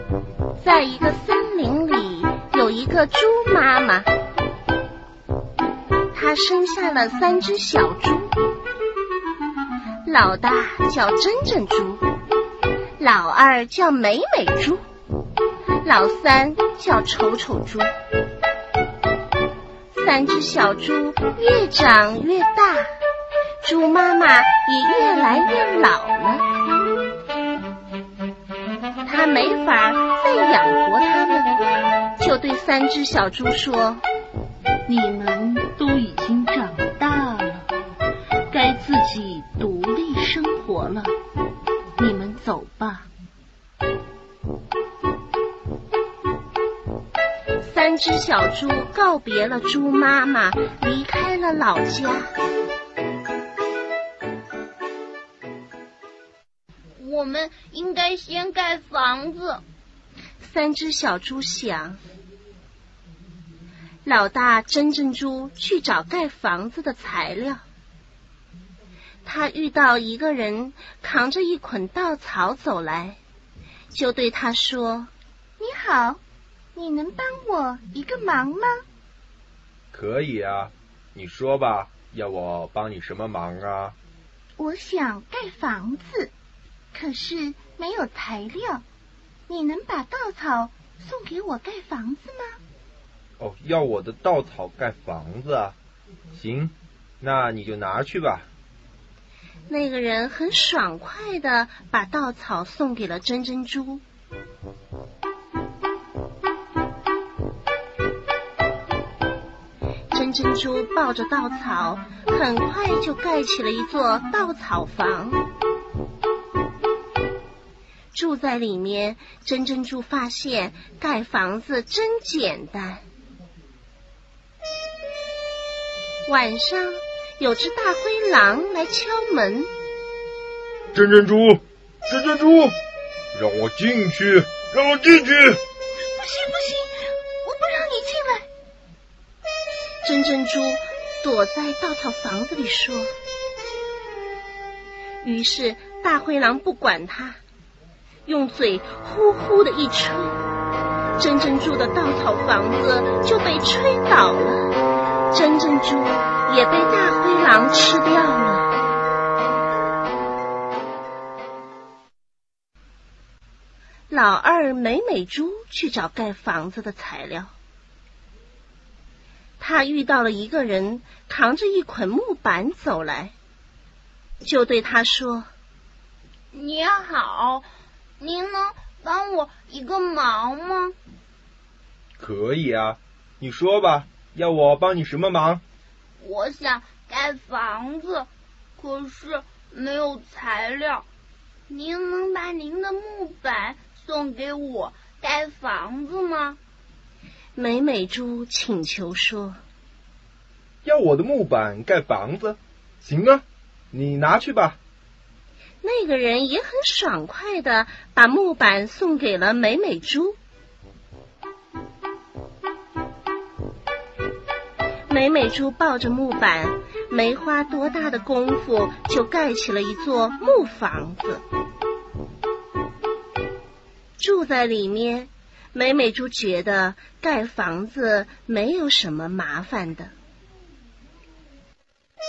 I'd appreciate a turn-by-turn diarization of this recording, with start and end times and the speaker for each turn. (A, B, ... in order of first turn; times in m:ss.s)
0:00.6-0:04.1 A
0:06.1-0:08.3 A
0:10.0-0:12.0 A
0:13.0-0:14.8 A
0:15.8-0:17.9 A
0:19.9-0:22.9 A
0:23.6-0:26.5 A
0:29.0-0:31.5 A
0:32.2-0:34.0 A
0:34.9-0:37.6 B
0:38.5-0:41.1 B
0:40.5-0:40.9 A
0:42.0-0:43.0 B
0:42.1-0:42.7 A
0:47.6-0:52.3 A
0:57.0-0:59.6 C
1:00.4-1:02.0 A
1:04.0-1:07.6 A
1:09.2-1:13.2 A
1:13.9-1:15.1 A
1:15.6-1:16.2 D
1:16.8-1:18.8 D
1:19.9-1:24.0 E
1:24.6-1:26.3 D
1:26.9-1:28.8 D
1:29.5-1:32.6 D
1:33.4-1:35.8 E
1:36.3-1:38.5 E
1:39.7-1:44.0 A
1:50.1-1:55.4 A
1:58.1-2:03.0 A
2:06.3-2:09.7 A
2:10.9-2:12.8 E
2:13.3-2:15.6 E
2:16.2-2:16.9 D
2:17.4-2:18.4 D
2:20.0-2:23.1 A
2:25.2-2:27.4 A
2:28.2-2:30.4 A
2:31.2-2:34.7 A
2:35.3-2:38.7 A
2:44.1-2:47.5 A
2:49.6-2:53.3 A
2:54.4-2:55.5 A
2:56.5-2:57.7 C
2:58.2-3:01.0 C
3:02.2-3:05.6 E
3:06.2-3:11.1 C
3:11.7-3:16.6 C
3:17.6-3:19.6 A
3:20.8-3:24.8 E
3:25.8-3:30.4 A
3:35.1-3:41.4 A
3:44.2-3:50.1 A